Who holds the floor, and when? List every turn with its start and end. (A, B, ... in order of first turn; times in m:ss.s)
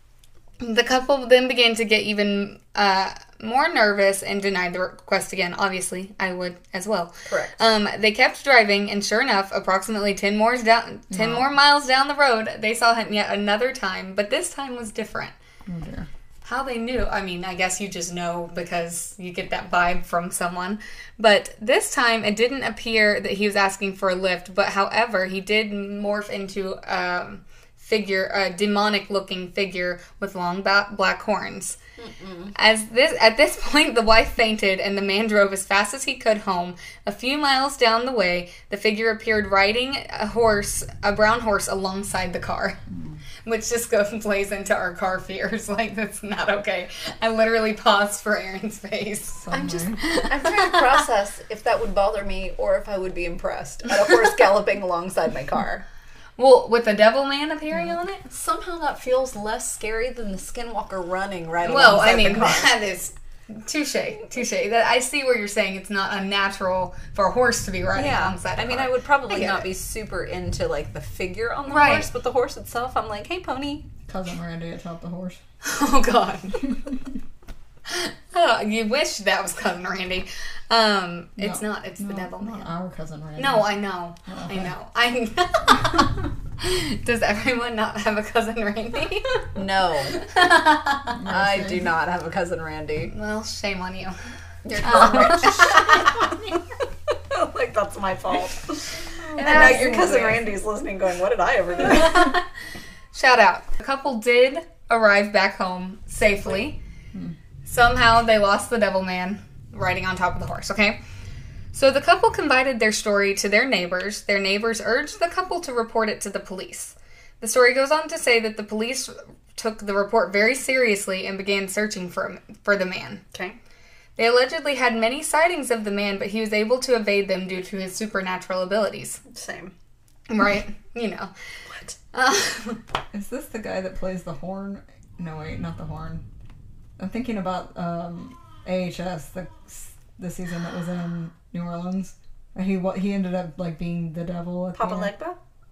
0:00.6-0:15.3 A
0:07.2-0:07.6 B
0:11.1-0:11.5 C
0:15.6-0:16.1 C
0:16.4-0:31.8 A
0:32.0-0:32.5 B
0:32.6-0:42.8 A
0:42.9-0:43.2 C
0:43.4-0:50.7 A
0:49.4-0:50.0 C
0:50.1-0:55.8 B
0:56.4-0:58.2 A
0:58.3-1:02.8 B
1:01.6-1:09.7 A
1:07.9-1:13.9 B
1:11.7-1:12.1 A
1:14.1-1:15.4 C
1:15.6-1:16.7 A
1:17.8-1:22.7 A
1:21.4-1:23.7 C
1:23.4-1:29.5 A
1:24.3-1:24.7 C
1:29.5-1:30.2 B
1:30.1-1:31.2 A
1:31.1-1:31.9 C
1:31.3-1:33.1 B
1:33.1-1:34.2 A
1:34.6-1:36.6 B
1:34.8-1:36.3 A
1:37.1-1:42.2 B
1:39.2-1:40.4 C
1:39.4-1:40.4 A
1:41.8-1:42.5 A
1:43.1-1:46.8 A
1:47.6-1:51.0 A
1:51.7-2:03.2 A
2:04.2-2:09.2 A
2:09.2-2:09.7 B
2:10.3-2:11.3 A
2:11.7-2:11.9 B
2:12.1-2:12.8 A
2:13.1-2:16.2 C
2:17.0-2:25.1 C
2:24.8-2:25.4 B